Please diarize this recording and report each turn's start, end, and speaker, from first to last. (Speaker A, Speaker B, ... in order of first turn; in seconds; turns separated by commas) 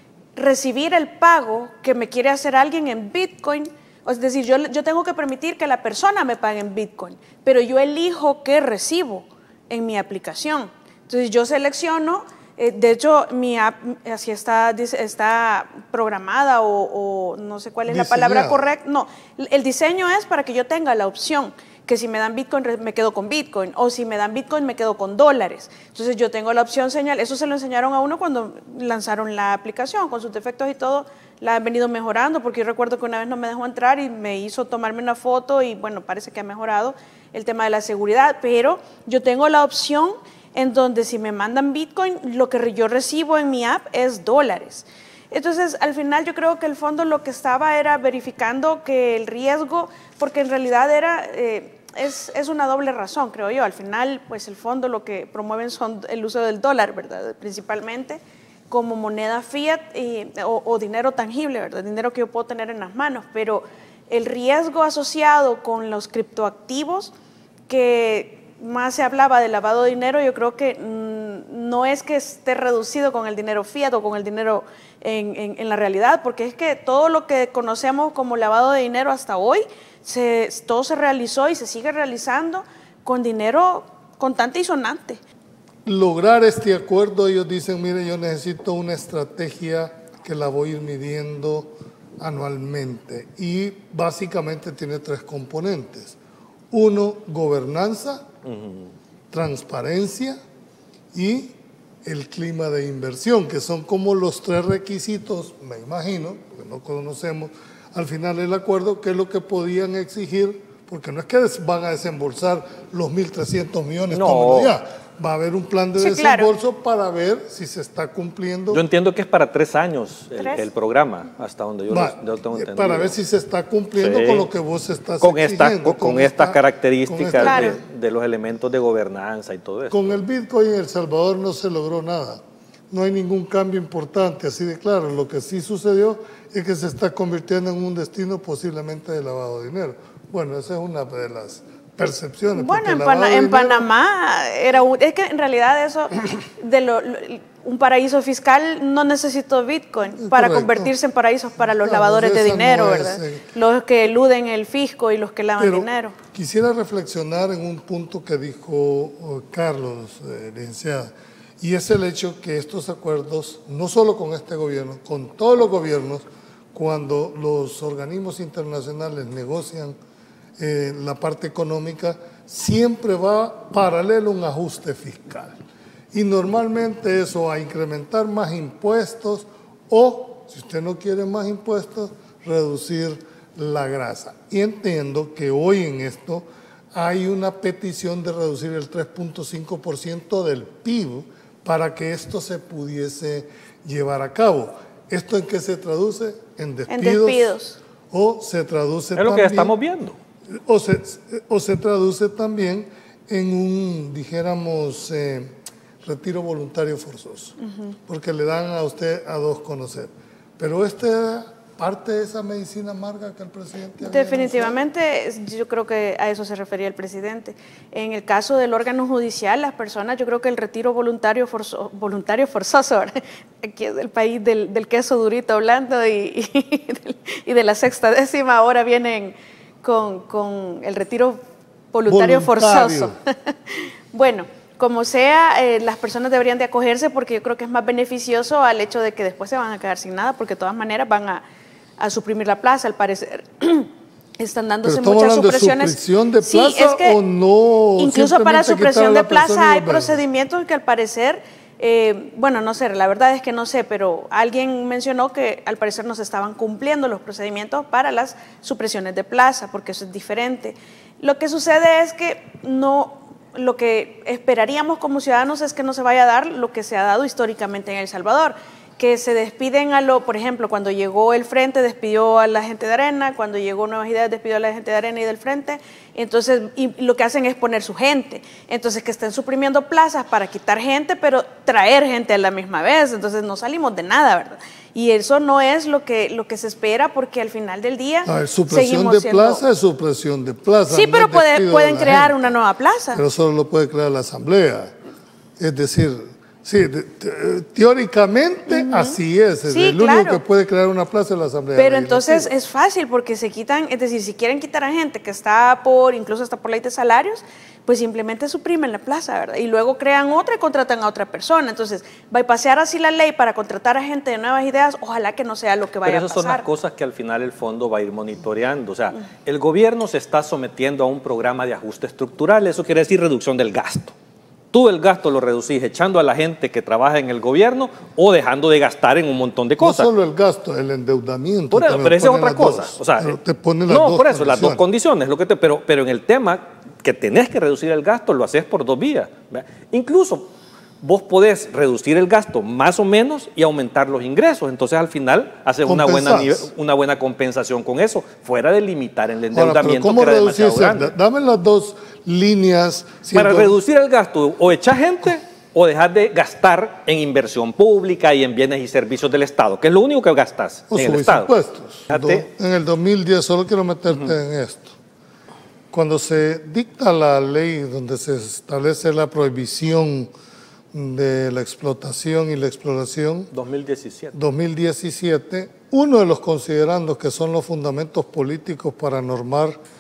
Speaker A: 0.4-67.1, Speaker B: 17.9-18.7, Speaker A: 67.7-85.2, Speaker B: 85.8-96.2, Speaker B: 96.7-98.2, Speaker C: 98.4-98.9, Speaker B: 99.3-100.4, Speaker B: 101.1-118.8, Speaker C: 114.1-114.8, Speaker A: 116.0-116.5, Speaker C: 118.7-123.2, Speaker A: 120.4-120.7, Speaker B: 121.9-127.8, Speaker C: 124.0-124.5, Speaker C: 125.2-130.2, Speaker A: 127.4-127.8, Speaker B: 129.9-132.4, Speaker B: 132.9-143.9, Speaker A: 142.5-156.2, Speaker B: 150.2-150.9, Speaker B: 151.6-153.4, Speaker B: 155.6-170.0, Speaker B: 170.6-175.6, Speaker B: 176.1-197.6, Speaker A: 196.9-197.8, Speaker B: 198.1-199.8, Speaker C: 199.2-200.2, Speaker B: 200.7-205.5, Speaker B: 206.0-214.8, Speaker A: 207.6-207.9, Speaker A: 214.0-231.4, Speaker A: 231.9-241.4, Speaker B: 232.1-233.2, Speaker A: 242.0-247.2, Speaker B: 244.8-250.2, Speaker A: 248.0-289.6, Speaker B: 288.3-292.5, Speaker A: 290.9-293.2, Speaker B: 293.1-294.9, Speaker B: 295.6-302.5, Speaker A: 298.7-300.4, Speaker A: 301.8-316.6, Speaker C: 316.0-324.1, Speaker C: 324.7-330.1, Speaker B: 329.8-334.8, Speaker C: 331.7-333.4, Speaker C: 333.9-340.5, Speaker C: 341.0-351.1, Speaker B: 345.9-346.7, Speaker B: 349.5-353.8, Speaker C: 353.3-361.5, Speaker B: 360.9-365.0, Speaker C: 362.1-362.5, Speaker B: 365.9-370.3, Speaker B: 370.9-373.5, Speaker C: 373.5-374.4, Speaker B: 374.3-379.8